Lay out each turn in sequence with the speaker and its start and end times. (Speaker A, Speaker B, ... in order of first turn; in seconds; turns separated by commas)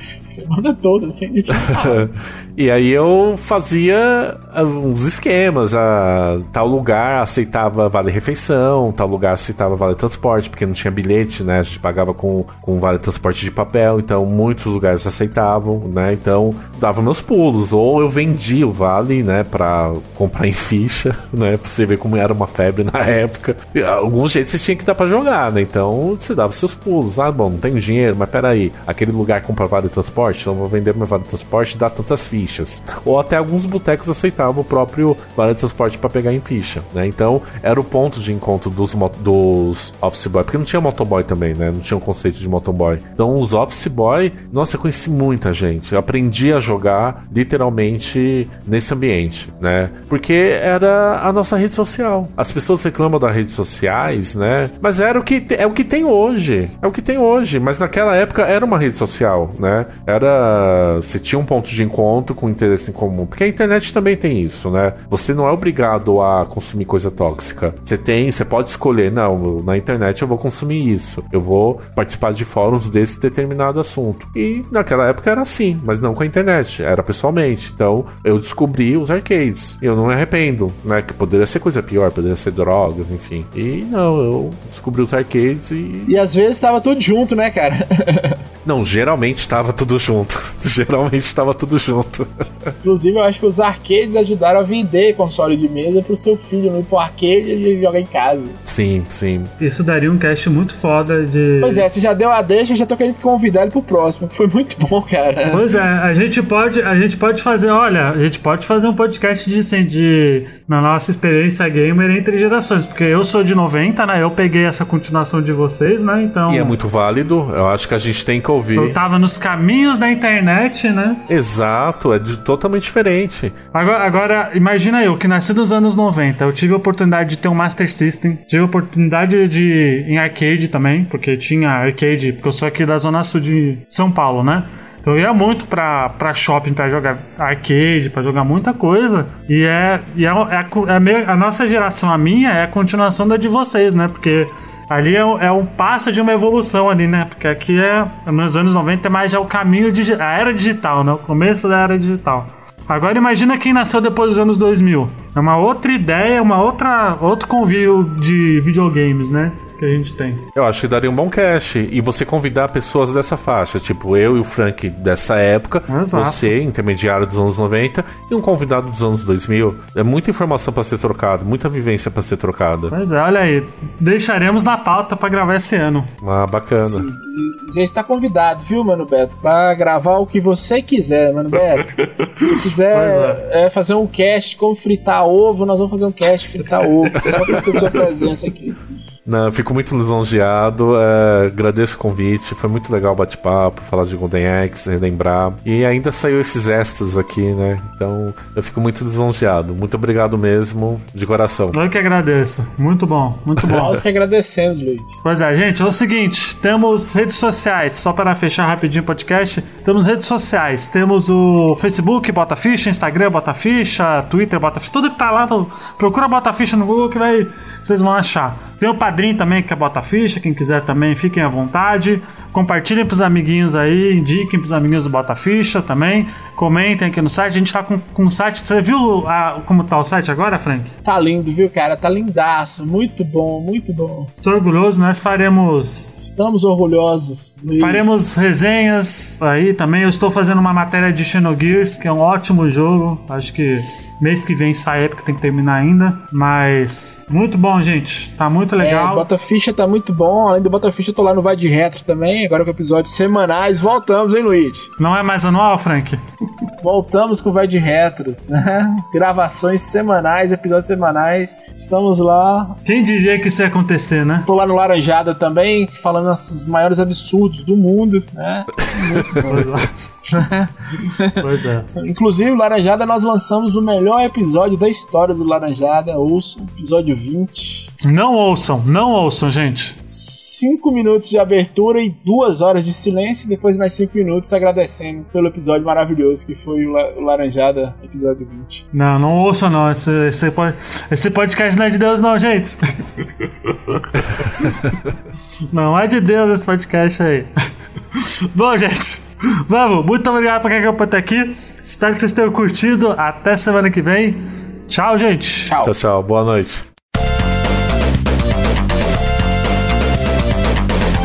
Speaker A: 0.2-2.1, Speaker B: 1.5-86.1, Speaker A: 86.0-88.4, Speaker B: 88.6-92.3, Speaker A: 92.8-98.6, Speaker B: 98.6-99.5, Speaker C: 99.6-101.9, Speaker A: 101.6-105.7, Speaker C: 105.5-116.7, Speaker B: 116.5-119.0, Speaker C: 118.8-121.2, Speaker B: 121.3-123.5, Speaker C: 123.7-160.4, Speaker B: 160.5-172.9, Speaker C: 165.9-166.6, Speaker C: 172.9-176.1, Speaker B: 176.2-177.1, Speaker A: 176.8-188.8, Speaker C: 182.4-183.4, Speaker B: 189.2-201.8, Speaker C: 201.7-204.0, Speaker A: 203.7-205.1, Speaker C: 205.2-230.9, Speaker A: 231.1-234.3, Speaker C: 234.4-236.1, Speaker A: 236.2-238.1, Speaker C: 237.8-249.3, Speaker A: 248.8-254.9, Speaker C: 255.0-256.2, Speaker A: 256.8-262.8, Speaker C: 262.9-264.5, Speaker A: 264.4-269.7, Speaker B: 268.9-269.4, Speaker C: 269.4-269.9, Speaker A: 270.3-271.4, Speaker C: 271.4-271.9, Speaker A: 271.9-277.9, Speaker C: 278.0-279.9, Speaker A: 280.1-288.8, Speaker C: 288.9-292.8, Speaker C: 295.7-297.5, Speaker C: 298.1-305.7, Speaker A: 305.6-305.9, Speaker B: 305.8-306.9